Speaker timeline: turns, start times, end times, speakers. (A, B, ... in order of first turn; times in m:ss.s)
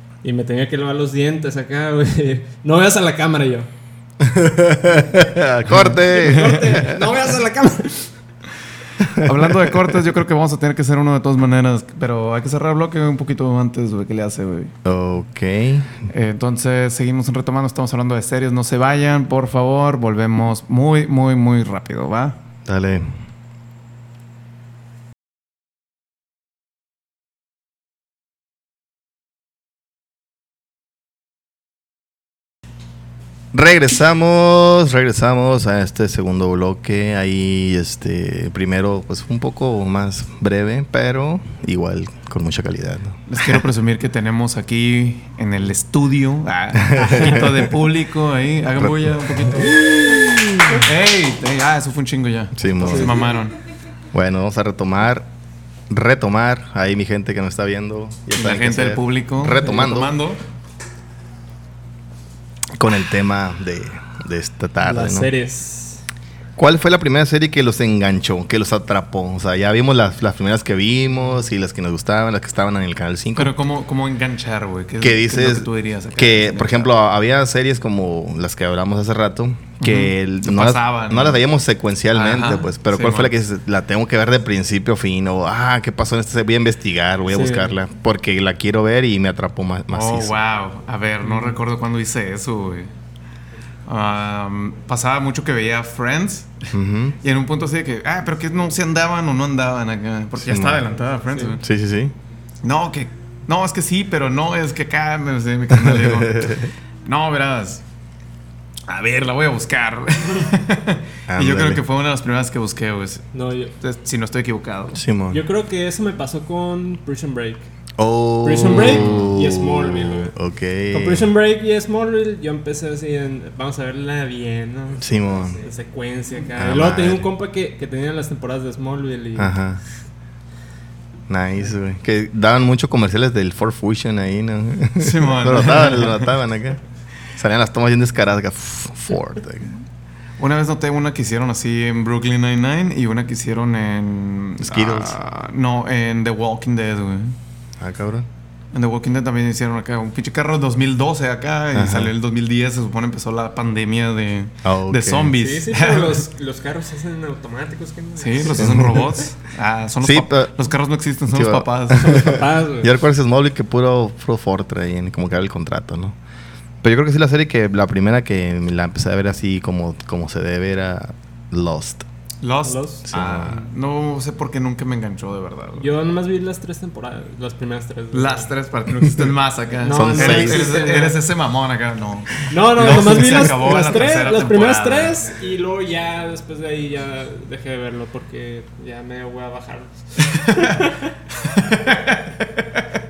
0:00.2-0:03.7 A
0:04.2-0:07.0 B
0:05.7-0:06.6 C
0:06.1-0:08.1 A
0:09.0-0:09.8 B
0:09.2-0:14.7 C
0:14.8-0:16.0 B
0:16.1-0:22.4 C
0:22.7-0:23.1 B
0:33.5-0:43.6 B
0:43.3-0:49.9 C
0:46.7-0:47.7 B
0:47.0-0:47.3 A
0:48.8-0:50.9 B
0:50.8-0:53.6 C
0:52.6-0:53.2 B
0:52.8-0:53.4 A
0:54.1-0:55.3 B
0:55.9-1:00.2 B
0:58.4-1:00.4 C
1:02.8-1:05.3 B
1:04.8-1:06.0 A
1:06.6-1:13.5 B
1:13.4-1:16.9 C
1:15.0-1:30.4 B
1:19.8-1:21.4 C
1:22.1-1:23.3 C
1:27.3-1:27.7 A
1:29.9-1:32.9 C
1:31.2-1:31.6 A
1:33.9-1:36.7 C
1:36.7-1:37.2 B
1:37.2-1:41.6 C
1:40.4-1:40.9 B
1:41.6-1:42.1 B
1:42.6-1:47.8 C
1:45.7-1:46.7 B
1:48.9-1:53.3 C
1:51.3-1:51.8 B
1:53.3-1:53.7 A
1:53.8-1:55.0 C
1:55.0-1:55.4 B
1:55.3-1:57.7 A
1:58.0-2:01.3 B
1:58.4-2:00.4 A
1:58.6-1:59.3 C
2:00.9-2:09.6 A
2:05.0-2:05.6 B
2:06.6-2:07.3 B
2:09.4-2:09.8 B
2:11.3-2:16.8 B
2:15.0-2:16.3 C
2:17.4-2:19.7 B
2:20.4-2:27.4 C
2:24.6-2:25.2 B
2:27.8-2:28.3 B
2:28.7-2:36.2 C
2:31.7-2:32.1 B
2:34.6-2:35.3 B
2:35.4-2:39.0 A
2:38.2-2:42.3 C
2:38.6-2:39.0 B
2:40.0-2:40.5 B
2:41.3-2:46.2 B
2:42.0-2:42.9 A
2:46.8-2:52.0 B
2:52.4-2:55.9 C
2:52.6-2:53.0 A
2:53.1-2:53.6 B
2:55.8-2:58.5 A
2:58.1-3:05.2 C
2:59.8-3:01.2 A
2:59.9-3:00.7 B
3:02.5-3:11.1 A
3:10.3-3:10.7 C
3:11.4-3:12.8 C